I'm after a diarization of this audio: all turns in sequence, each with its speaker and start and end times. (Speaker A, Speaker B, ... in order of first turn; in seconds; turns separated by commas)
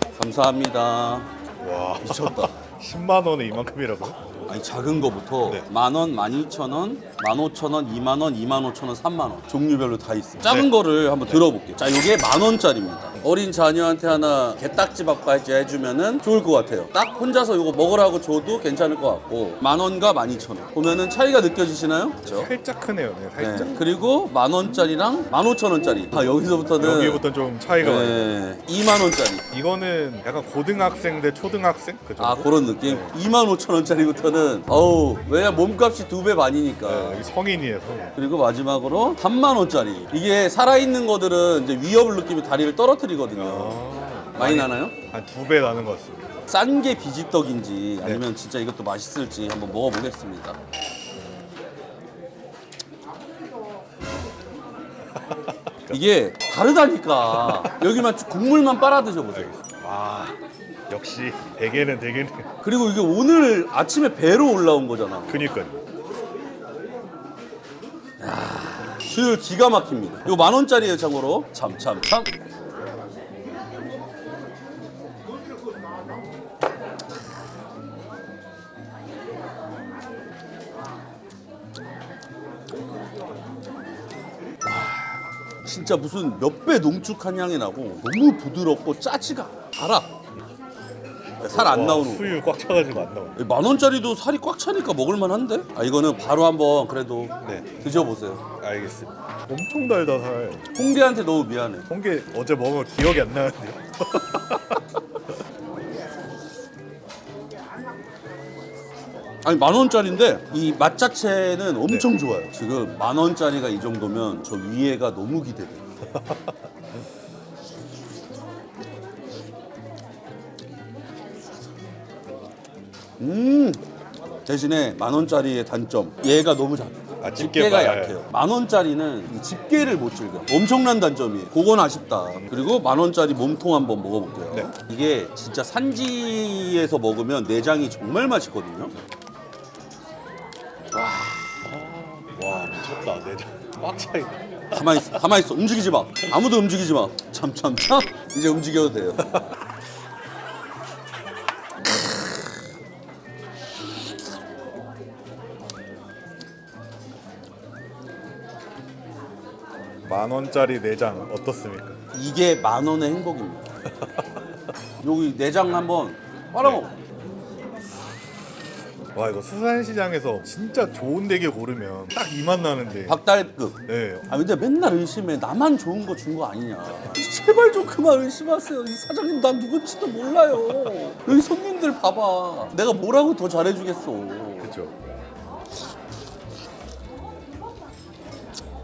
Speaker A: 0.1-1.3, Speaker B: 1.6-4.2, Speaker A: 2.0-2.5, Speaker A: 4.5-22.5, Speaker B: 10.4-10.7, Speaker B: 22.3-23.8, Speaker A: 23.4-27.2, Speaker B: 26.8-28.3, Speaker A: 27.8-29.4, Speaker B: 29.5-33.1, Speaker A: 32.2-37.2, Speaker B: 36.9-38.2, Speaker A: 38.2-43.8, Speaker B: 43.4-46.3, Speaker A: 44.4-45.0, Speaker A: 46.5-50.6, Speaker B: 55.5-56.0, Speaker A: 55.9-59.5, Speaker B: 57.3-57.7, Speaker B: 59.3-60.4, Speaker B: 60.9-62.5, Speaker A: 62.6-65.5, Speaker B: 65.3-65.8, Speaker A: 68.2-72.3, Speaker A: 84.7-90.1, Speaker A: 91.4-92.3, Speaker B: 91.5-93.4, Speaker A: 93.4-98.4, Speaker B: 97.4-97.7, Speaker B: 98.6-100.7, Speaker A: 100.8-101.9, Speaker B: 101.9-104.8, Speaker A: 109.4-115.9, Speaker A: 123.2-123.8, Speaker A: 124.5-138.9, Speaker B: 127.2-128.2, Speaker B: 140.9-145.2, Speaker A: 144.7-149.5, Speaker B: 160.1-162.0, Speaker A: 162.1-163.7, Speaker A: 165.0-166.9, Speaker B: 169.2-173.2, Speaker A: 173.1-184.8, Speaker B: 173.8-174.3, Speaker B: 184.6-184.9